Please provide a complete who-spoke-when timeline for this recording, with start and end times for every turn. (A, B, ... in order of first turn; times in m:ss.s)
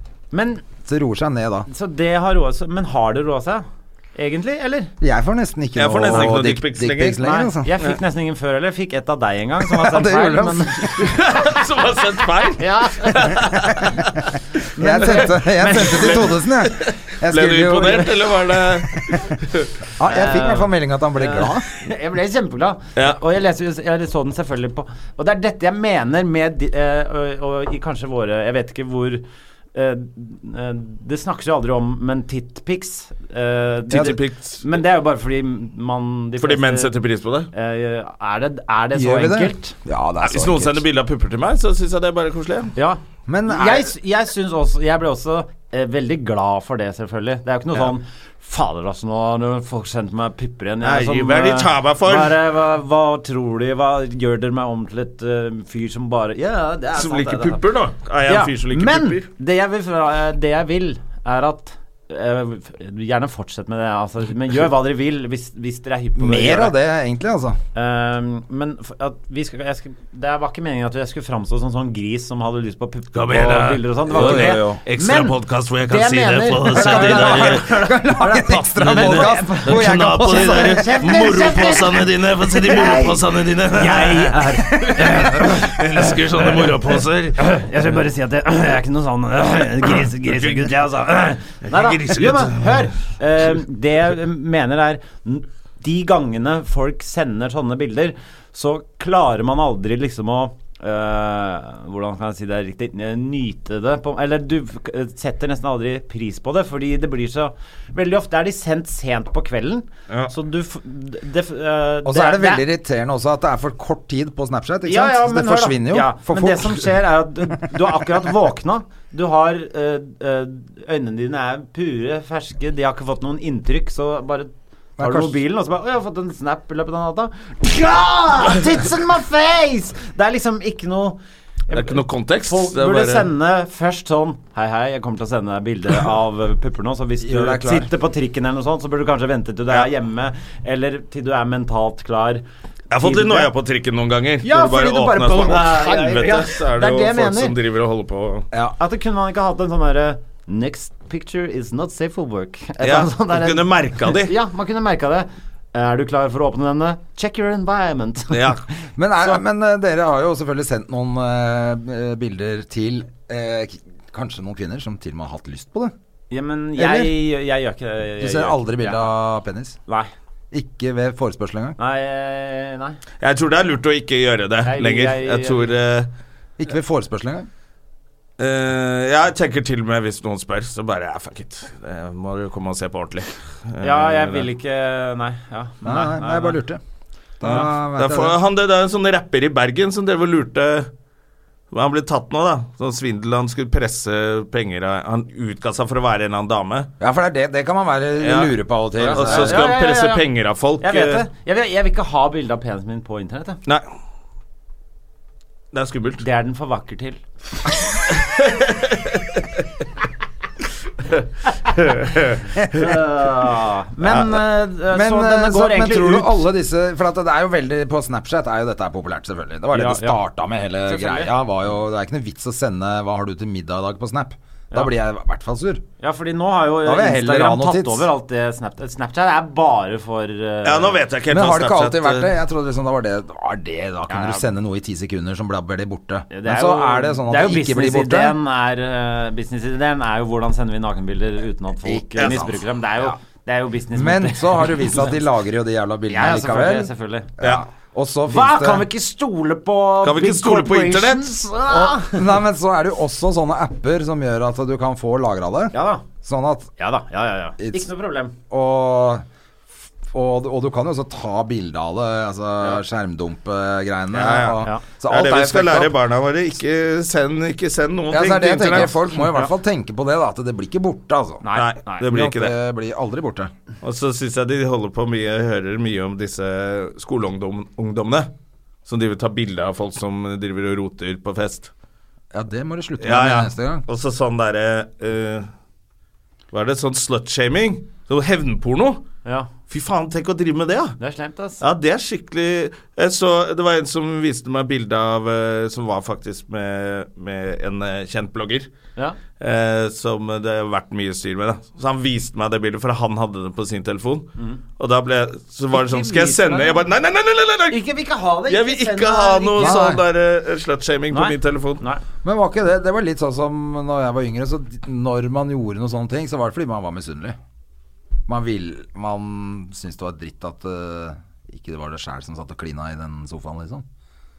0:00.3-0:00.6 A
0:00.8-0:01.7 B
0:01.7-0:03.6 A
0:04.1-0:04.9 A
0:05.0-0:07.7 B
0:05.7-0:07.2 C
0:07.2-0:11.3 A
0:09.6-0:11.0 B
0:10.9-0:14.1 C
0:12.6-0:16.4 A
0:14.8-0:19.2 B
0:15.8-0:19.8 C
0:20.0-0:21.6 B
0:20.0-0:29.2 A
0:29.7-0:36.9 A
0:33.9-0:34.1 B
0:33.9-0:34.6 C
0:36.4-0:37.5 C
0:37.5-0:39.8 A
0:38.9-0:40.8 B
0:40.2-0:42.7 C
0:42.8-0:57.6 A
0:43.3-0:43.9 B
0:50.8-0:52.4 C
0:56.9-0:59.2 C
0:58.2-1:06.8 A
1:06.2-1:07.6 B
1:07.7-1:52.6 A
1:13.1-1:17.7 C
1:14.1-1:14.8 B
1:16.6-1:21.0 B
1:18.6-1:27.4 C
1:24.7-1:25.0 B
1:30.2-1:30.6 C
1:31.6-1:32.9 C
1:52.0-1:57.0 B
1:54.8-2:11.2 A
2:05.0-2:05.4 B
2:11.7-2:22.4 A
2:11.7-2:13.3 C
2:17.2-2:17.9 B
2:22.9-2:28.5 C
2:23.0-2:23.5 A
2:24.4-2:27.6 A
2:24.7-2:25.6 B
2:28.8-2:39.4 A
2:32.8-2:34.3 C
2:38.3-2:38.6 C
2:39.0-2:45.9 B
2:46.3-2:49.1 A
2:46.8-2:47.2 B
2:48.2-2:49.8 B
2:49.8-2:50.1 A
2:50.5-2:51.8 B
2:51.8-2:53.0 A
2:53.2-2:56.1 C
2:54.6-2:55.8 A
2:56.6-2:57.5 B
2:58.4-3:04.5 C
3:03.8-3:06.6 A
3:05.8-3:06.8 B
3:07.4-3:08.4 B
3:07.4-3:10.9 C
3:11.7-3:16.9 C
3:17.0-3:19.6 B
3:18.2-3:21.2 C
3:19.0-3:20.3 A
3:20.8-3:23.6 A
3:25.7-3:26.2 C
3:26.2-3:27.2 A
3:27.9-3:29.6 C
3:31.1-3:32.8 C
3:32.6-3:36.4 A
3:34.9-3:45.8 B
3:39.7-3:40.2 A
3:40.8-3:41.3 A
3:46.0-3:51.0 A
3:46.8-3:48.1 B
3:50.6-3:52.3 C
3:51.3-3:58.4 B
3:54.1-3:54.4 A
3:56.3-4:05.2 A
4:01.8-4:02.5 B
4:02.2-4:02.4 C
4:03.9-4:08.9 B
4:06.1-4:07.3 A
4:08.3-4:12.4 A
4:10.0-4:11.4 C
4:11.6-4:16.7 B
4:15.7-4:16.1 A
4:16.8-4:18.4 A
4:17.6-4:17.9 B
4:18.5-4:19.2 B
4:20.1-4:25.9 B
4:24.1-4:29.0 C
4:28.1-4:31.4 B
4:31.4-4:32.1 A
4:31.5-4:32.5 C
4:32.0-4:33.5 B
4:33.8-4:38.3 C
4:38.8-4:41.7 C
4:42.3-4:43.8 B
4:43.0-4:45.5 C
4:46.5-4:49.0 C
4:49.2-4:49.5 A
4:49.7-4:51.0 C
4:51.0-4:51.6 A
4:51.6-4:58.7 C
4:59.4-5:07.8 C
5:05.7-5:06.8 A
5:07.7-5:09.9 A
5:08.5-5:11.8 C
5:09.6-5:10.0 B
5:11.1-5:12.0 A
5:12.2-5:17.4 B
5:18.3-5:23.8 B